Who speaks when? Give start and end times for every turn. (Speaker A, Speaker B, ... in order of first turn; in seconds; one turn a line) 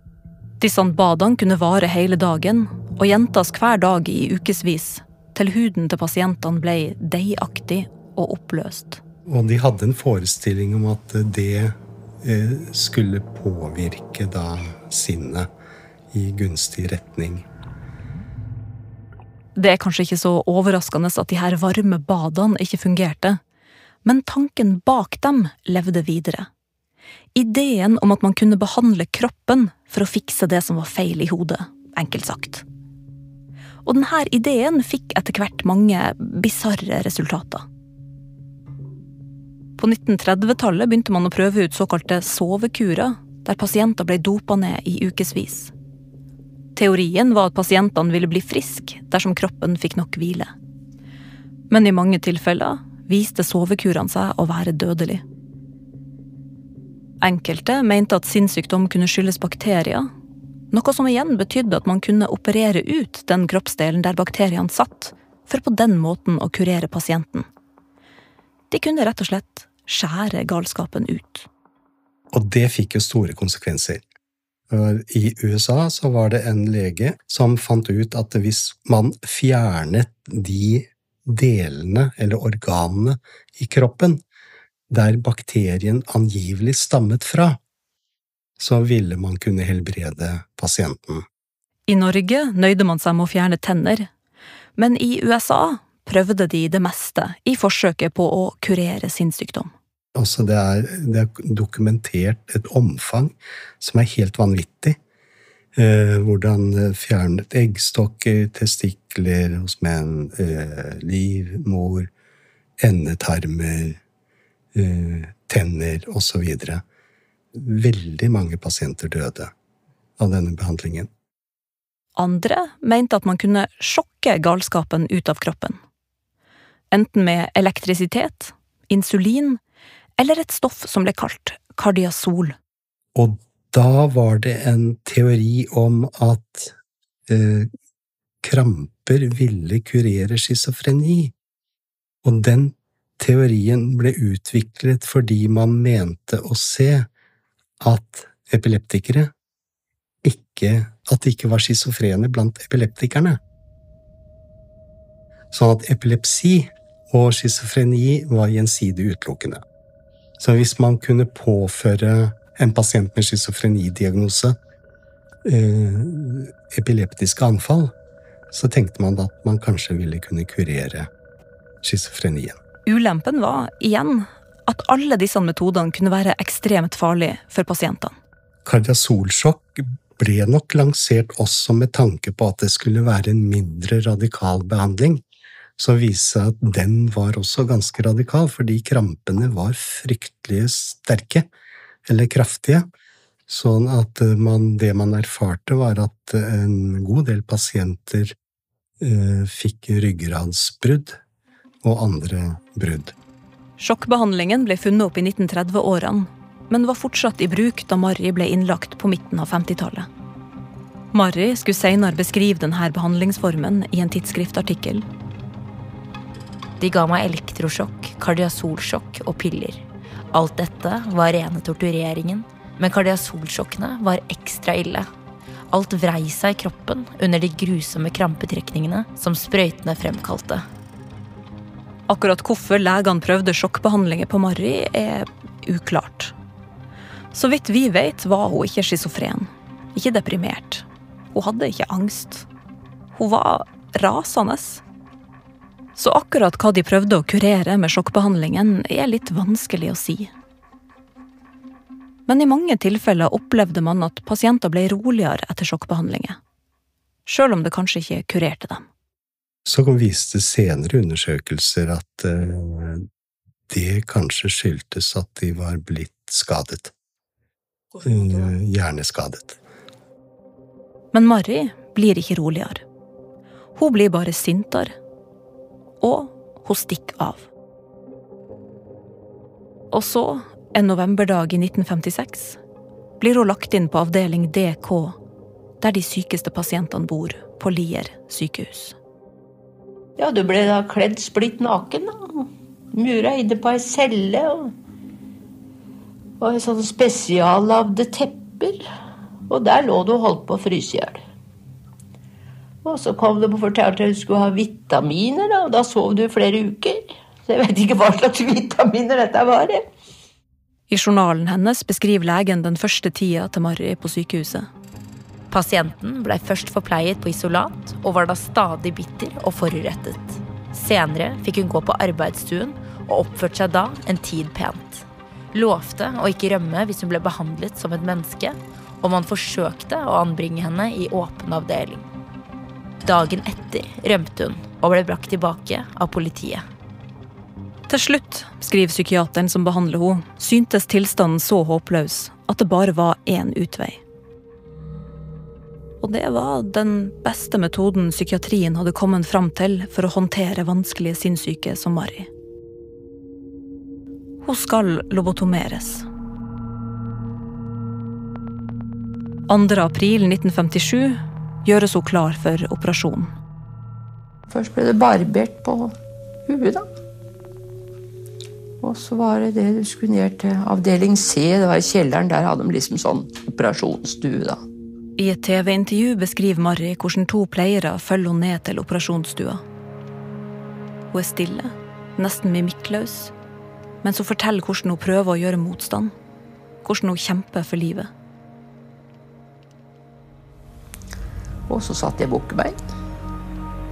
Speaker A: 0.6-9.0
Speaker B: 9.3-15.5
Speaker B: 16.1-17.4
Speaker A: 19.6-23.4
Speaker A: 24.1-26.5
Speaker A: 27.4-32.6
Speaker A: 33.9-37.6
Speaker A: 39.8-45.7
Speaker A: 46.8-50.5
Speaker A: 51.7-55.2
Speaker A: 57.2-60.1
Speaker A: 60.7-67.5
Speaker A: 68.7-71.5
Speaker B: 72.3-74.0
Speaker B: 74.7-84.2
Speaker B: 84.9-87.6
Speaker B: 88.6-91.2
Speaker A: 91.9-94.1
Speaker A: 94.8-99.7
Speaker B: 100.2-105.0
Speaker B: 105.8-112.1
Speaker B: 112.8-114.0
Speaker B: 114.8-116.8
Speaker B: 117.5-119.5
Speaker B: 120.2-121.1
Speaker A: 122.2-125.8
Speaker A: 126.9-129.6
Speaker A: 130.2-132.6
Speaker B: 133.2-136.8
Speaker B: 137.3-137.7
Speaker B: 138.4-141.3
Speaker B: 142.2-147.1
Speaker B: 147.8-149.3
Speaker B: 150.2-153.4
Speaker B: 155.5-159.6
Speaker B: 160.4-164.6
Speaker B: 165.4-167.9
Speaker B: 168.5-171.1
Speaker B: 171.8-172.6
Speaker A: 172.9-178.2
Speaker B: 178.7-185.2
Speaker B: 185.8-191.5
Speaker B: 192.1-192.9
Speaker B: 193.5-198.3
Speaker B: 199.0-201.2
Speaker B: 201.8-203.2
Speaker A: 203.8-210.1
Speaker A: 211.1-215.1
Speaker C: 216.8-225.1
Speaker C: 225.7-230.7
Speaker A: 232.1-236.3
Speaker A: 237.3-242.5
Speaker A: 243.2-244.8
Speaker A: 246.0-250.3
Speaker A: 252.3-256.4
Speaker A: 257.3-258.9
Speaker B: 259.7-263.1
Speaker B: 263.7-266.9
Speaker B: 268.0-269.6
Speaker A: 271.1-272.8
Speaker A: 273.8-274.9
Speaker A: 276.0-277.5
Speaker A: 279.9-282.6
Speaker A: 283.2-285.2
Speaker A: 285.8-289.0
Speaker D: 290.2-294.7
Speaker D: 296.4-298.8
Speaker D: 299.5-301.2
Speaker D: 302.9-309.8
Speaker A: 310.9-314.7
Speaker C: 315.5-332.1
Speaker C: 333.0-336.6
Speaker A: 337.9-344.0
Speaker A: 346.0-352.3
Speaker A: 354.4-356.1
Speaker A: 359.5-363.3
Speaker D: 364.8-365.9
Speaker D: 366.5-366.8
Speaker D: 368.9-374.6
Speaker A: 375.2-379.6
Speaker A: 381.1-383.3
Speaker A: 384.0-386.1
Speaker A: 386.8-388.1
Speaker D: 391.7-392.8